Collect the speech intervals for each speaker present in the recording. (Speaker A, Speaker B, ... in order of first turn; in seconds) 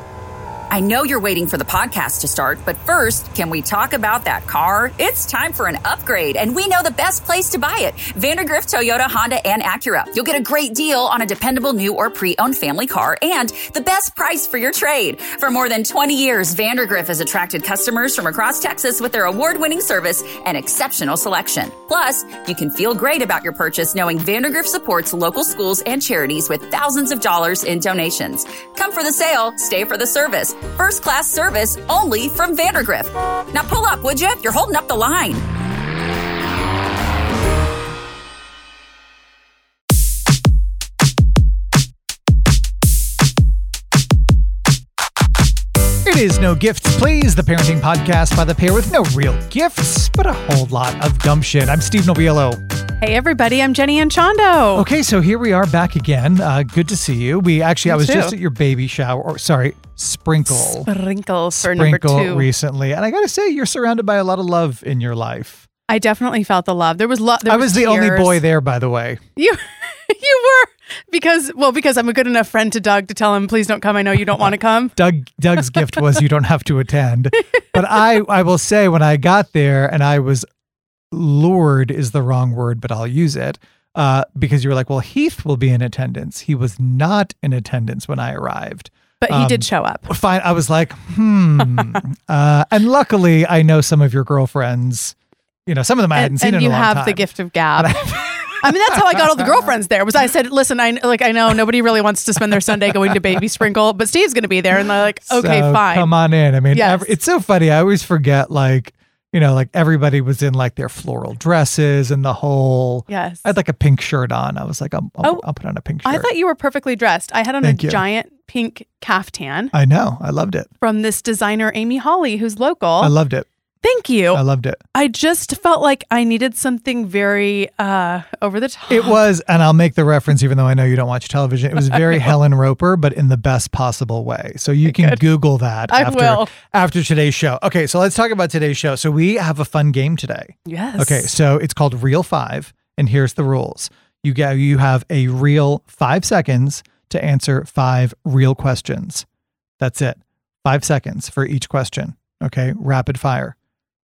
Speaker A: 0.7-35.4
Speaker B: 46.0-52.6, 54.8-60.9, 61.5-65.7, 67.5-69.2, 74.4-80.5, 81.1-95.1, 95.7-97.2, 97.8-99.6, 105.3-116.3, 117.6-118.0, 119.7-120.7, 123.0-123.5, 124.3-124.8, 128.9-149.2, 149.8-153.5
Speaker C: 53.0-54.9, 57.9-58.3, 60.5-62.5, 65.9-68.4, 69.3-75.0, 89.2-90.1, 96.1-106.1, 106.7-107.1, 113.1-113.5, 116.0-119.7, 120.8-123.1, 123.8-124.4, 124.9-129.2, 134.8-135.2, 135.9-136.5, 140.7-141.3